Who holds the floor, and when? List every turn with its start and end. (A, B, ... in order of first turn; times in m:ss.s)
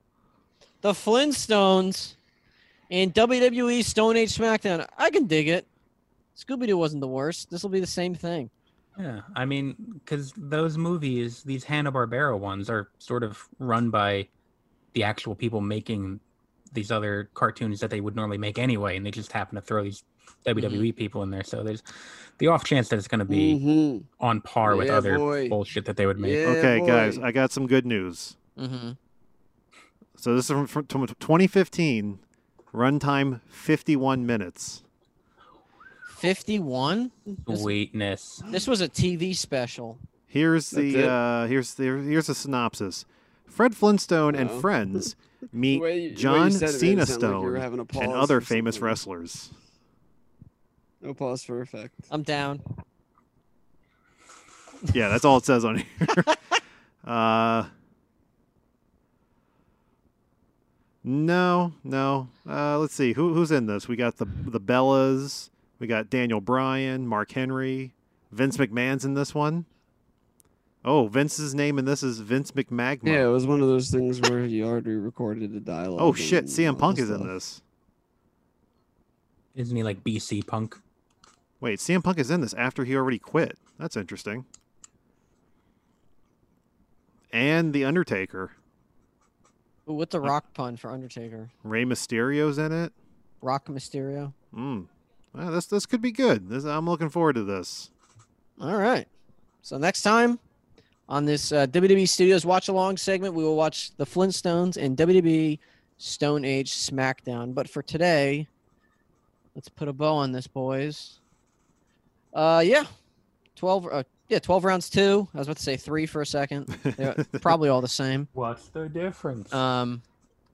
0:00.8-0:02.2 A
0:02.9-0:05.7 A
0:06.4-0:08.5 A
0:09.0-0:14.3 B
0:14.9-0:16.2 B
0:16.7-0:23.6 B
0:20.6-0:20.9 A
0:23.3-0:24.1 C
0:24.2-0:26.4 B
0:24.6-0:25.6 C
0:26.2-0:27.2 C
0:26.4-0:28.4 D
0:28.6-0:29.0 A
0:30.2-0:32.2 D
0:32.7-0:34.8 D
0:36.1-0:37.7 A
0:37.5-0:38.5 B
0:38.5-0:40.0 A
0:40.3-0:49.5 D
0:40.7-0:41.2 C
0:44.3-0:44.7 C
0:45.7-0:49.0 C
0:51.0-0:52.1 C
0:52.1-0:52.6 A
0:54.9-0:56.4 D
0:57.0-0:57.7 D
1:01.0-1:09.7 D
1:10.8-1:13.3 D
1:13.0-1:17.3 C
1:16.0-1:17.6 D
1:19.6-1:20.8 B
1:21.6-1:24.4 D
1:27.3-1:28.5 D
1:29.9-1:31.5 A
1:31.6-1:32.9 D
1:33.4-1:34.3 A
1:34.5-1:37.9 D
1:38.6-1:39.1 A
1:39.6-1:40.4 A
1:41.1-1:48.5 A
1:49.6-1:51.2 A
1:52.3-1:52.9 A
1:53.6-1:58.3 A
1:56.8-1:57.6 D
1:58.3-1:59.6 B
1:59.5-2:00.0 A